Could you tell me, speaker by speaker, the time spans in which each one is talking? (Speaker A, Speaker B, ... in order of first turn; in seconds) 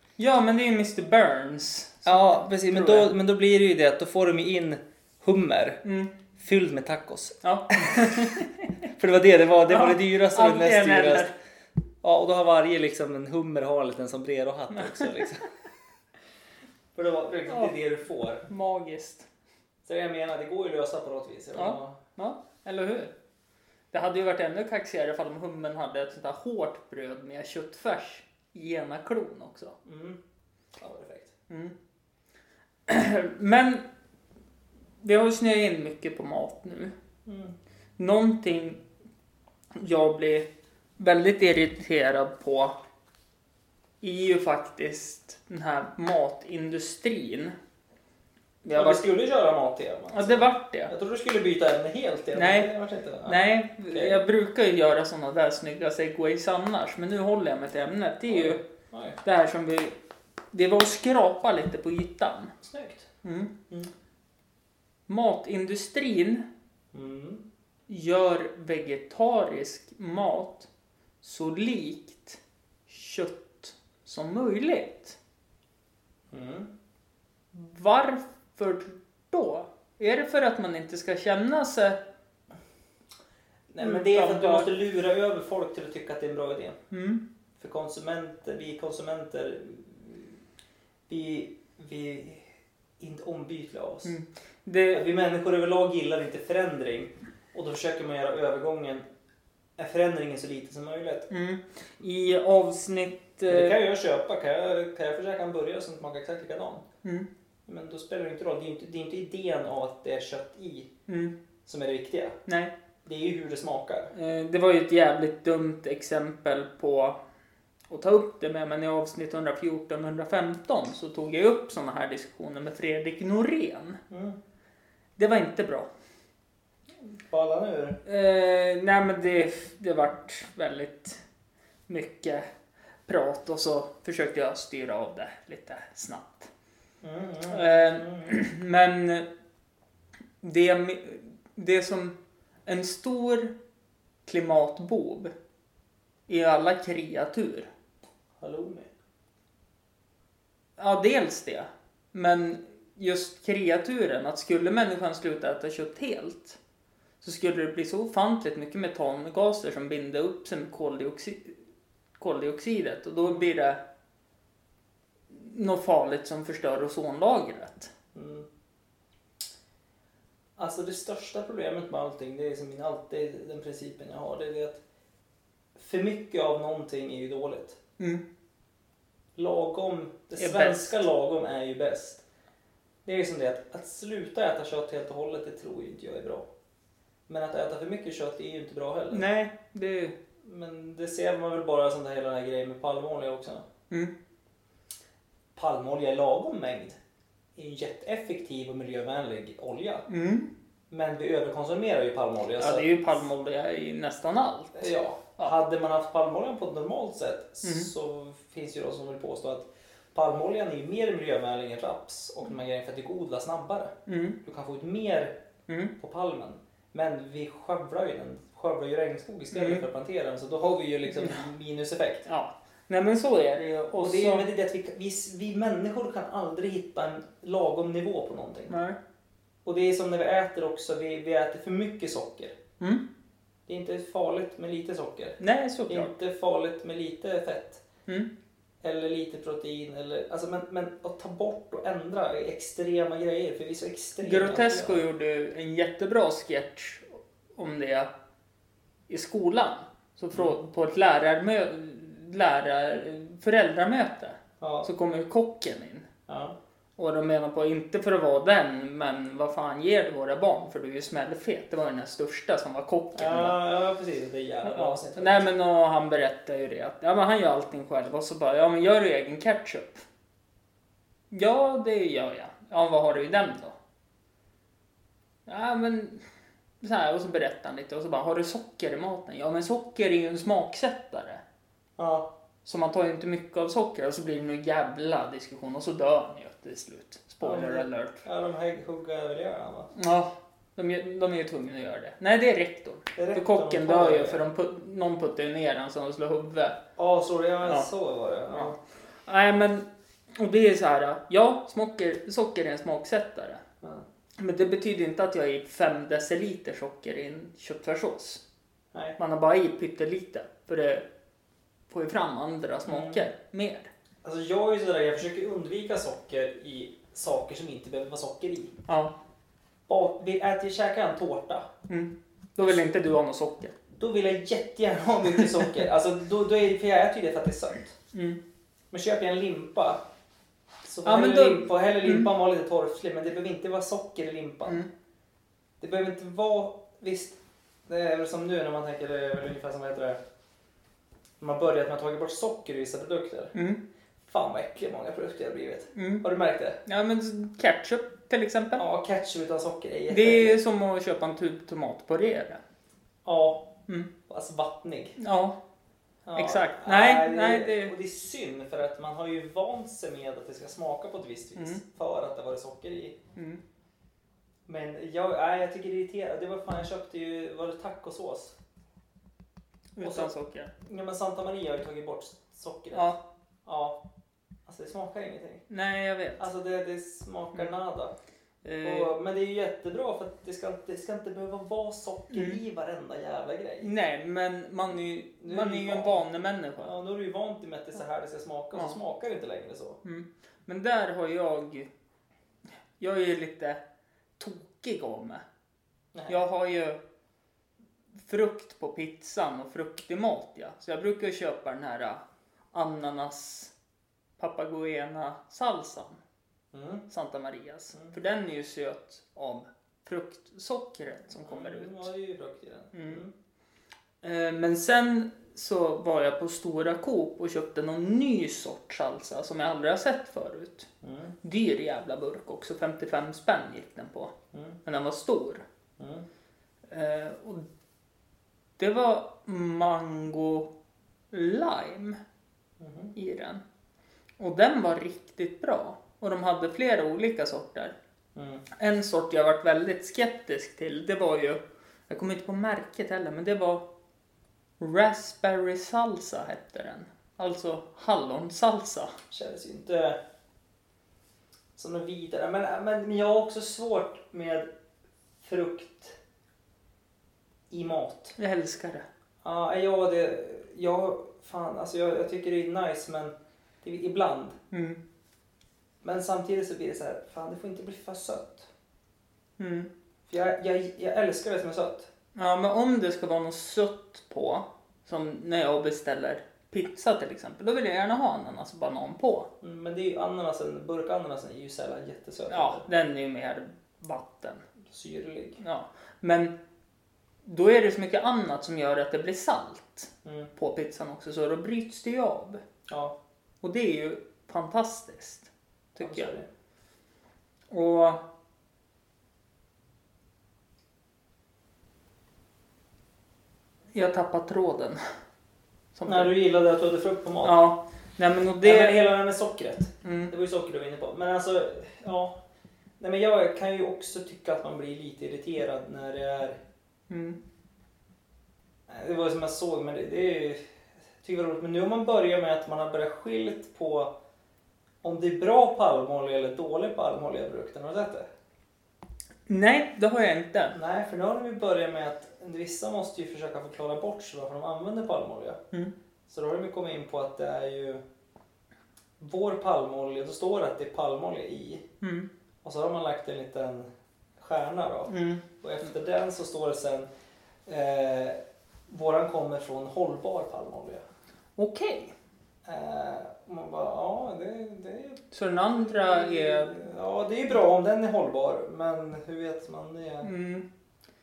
Speaker A: 0.2-3.1, 5.8-6.1, 7.4-8.7, 9.7-11.3, 14.7-15.2, 17.5-17.7, 18.5-19.3, 21.5-23.1, 23.9-29.8, 31.5-31.7, 32.9-33.9, 35.0-36.9, 38.0-38.8, 39.8-42.8, 44.0-47.5, 48.6-49.1, 50.1-50.9, 52.3-52.7, 53.2-58.6, 59.2-60.0, 60.5-62.5, 63.2-63.5, 65.1-66.4, 67.9-70.7, 71.2-75.2, 77.5-82.0, 83.8-84.7, 86.9-87.2, 94.0-95.0, 101.3-103.8, 111.1-111.3, 112.5-112.7, 114.1-117.2, 117.9-124.0, 125.2-125.9, 128.0-131.2, 131.9-132.5, 133.1-136.5, 137.5-139.3, 140.4-143.5, 144.2-145.3, 146.3-147.7, 150.8-156.6, 157.2-161.6, 162.2-163.8, 165.3-167.9, 180.3-181.0, 189.1-190.1, 200.1-200.5, 202.6-205.5, 207.6-207.9, 214.1-214.4, 215.7-215.9, 219.5-219.8, 221.2-221.5, 222.2-224.4, 228.7-229.0, 235.4-236.1, 244.2-248.1, 249.1-256.1, 257.0-263.6, 264.6-270.0, 271.3-273.8, 275.4-276.2, 276.8-281.4, 282.6-288.2, 289.9-296.8, 297.6-297.9, 298.5-303.6, 304.4-308.4, 309.2-311.0, 311.9-313.9, 318.9-319.1, 321.9-323.7, 325.4-325.8, 328.1-328.4, 331.0-332.3, 343.5-343.8, 345.9-346.2, 346.8-348.8, 350.1-352.6, 355.2-355.6, 356.3-357.9, 361.6-361.8, 363.4-363.6, 369.9-370.7, 372.9-373.2, 375.7-376.4, 378.6-379.1, 382.3-382.6, 383.8-386.9, 388.7-389.0, 390.0-391.9, 393.0-393.8, 394.4-395.4, 396.3-397.0, 398.2-403.7, 404.4-406.2, 407.1-412.1, 412.9-413.2, 414.2-420.9, 421.4-424.3, 424.8-425.6, 426.9-427.6, 428.8-430.7, 431.3-432.2, 433.1-433.6, 434.4-437.9, 438.7-443.8, 444.8-449.1, 458.4-459.1, 464.7-465.0, 469.6-469.9, 472.4-479.5, 482.5-484.6, 485.6-486.5, 487.4-492.6, 493.6-496.3, 497.7-498.2, 503.9-505.0, 505.9-506.3, 507.4-509.0, 510.0-510.3, 517.1-517.4, 529.5-530.8, 542.0-542.3, 545.1-545.4, 551.6-552.1, 555.3-556.8, 560.2-560.6
Speaker B: 2.0-5.8, 6.4-8.4, 8.9-11.3, 12.0-15.5, 16.9-18.4, 19.8-22.0, 29.8-30.2, 30.8-31.3, 37.2-37.5, 48.7-54.2, 58.3-59.2, 62.6-63.1, 66.9-67.4, 76.3-76.7, 83.7-86.8, 87.6-90.4, 91.1-94.2, 94.9-99.0, 99.8-101.3, 103.5-106.8, 107.7-110.9, 111.7-112.4, 113.0-114.1, 124.1-124.4, 127.0-128.0, 137.0-138.3, 148.4-148.9, 168.1-168.5, 170.6-174.8, 175.8-177.8, 179.3-182.2, 183.0-186.4, 187.3-189.2, 190.4-193.7, 195.6-197.0, 197.6-200.1, 200.9-203.0, 204.7-215.3, 216.0-222.2, 224.0-228.7, 229.6-232.6, 233.7-237.8, 238.8-245.0, 254.6-254.9, 256.3-256.6, 263.1-265.5, 282.0-282.3, 287.4-289.9, 293.1-294.4, 297.0-298.8, 312.9-313.2, 314.2-318.7, 319.9-321.7, 322.6-322.9, 324.0-328.0, 328.9-330.0, 330.8-334.8, 335.8-340.2, 341.4-343.5, 344.2-346.8, 348.8-350.6, 353.2-353.6, 354.3-355.1, 356.2-363.2, 364.6-368.6, 370.0-370.3, 370.8-373.1, 373.6-374.0, 374.6-375.6, 376.4-378.1, 378.8-383.9, 385.4-386.2, 386.8-390.0, 396.1-396.4, 406.7-407.0, 411.4-413.3, 421.0-421.3, 424.5-424.8, 426.0-426.2, 432.8-433.1, 438.3-438.6, 449.3-450.2, 451.8-454.7, 455.4-456.2, 457.7-458.4, 459.4-464.6, 466.0-468.7, 470.3-472.1, 479.6-482.8, 484.9-485.6, 490.2-490.5, 492.9-493.1, 496.0-496.5, 506.1-507.6, 508.6-512.4, 513.0-516.6, 518.9-520.6, 521.2-524.1, 525.0-528.3, 530.7-535.6, 536.3-538.0, 539.2-541.9, 542.6-547.1, 547.6-551.0, 552.6-560.3